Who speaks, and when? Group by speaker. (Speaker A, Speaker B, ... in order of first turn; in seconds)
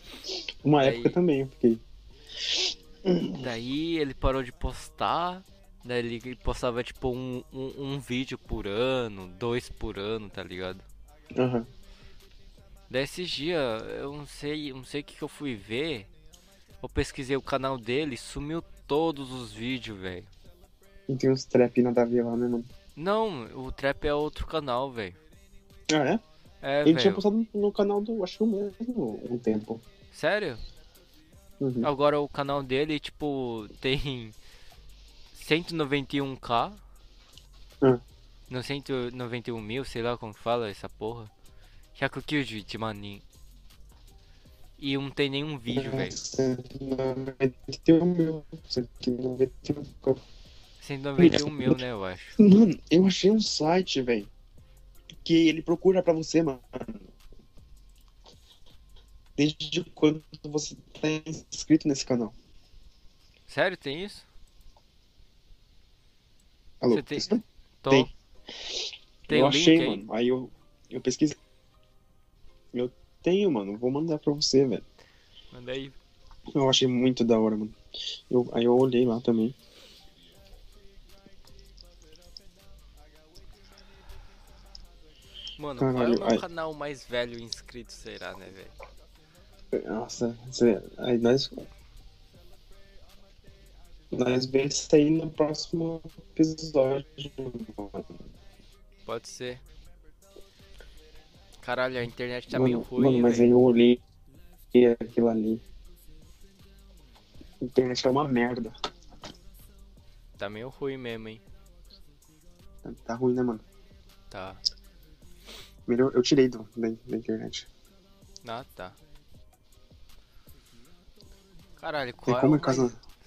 Speaker A: 0.6-1.8, 3.1-3.5, 11.4-11.7, 21.1-22.7, 25.9-26.2, 26.8-29.8, 31.6-31.9, 45.7-50.2, 51.2-51.8, 52.4-54.3, 55.2-57.1, 59.4-62.4, 66.8-68.1, 69.3-71.4, 72.7-74.8, 76.5-77.8, 78.3-79.6, 85.8-86.4, 89.7-91.7, 94.1-98.1, 102.5-104.0, 104.7-105.6, 107.6-108.7, 112.8-113.6, 115.9-117.7, 122.3-123.0
Speaker B: 0.8-1.2, 3.3-10.8, 12.9-16.1, 16.8-20.3, 23.0-25.2, 26.6-27.2, 30.1-30.6, 31.8-34.4, 35.3-36.8, 38.5-41.3, 42.0-43.2, 44.8-46.2, 50.8-52.4, 63.5-64.3, 66.9-68.1, 69.3-70.0, 75.5-76.0, 85.6-88.7, 99.1-99.6, 101.6-103.5, 110.4-111.4, 114.3-114.6, 118.4-119.0, 121.8-122.9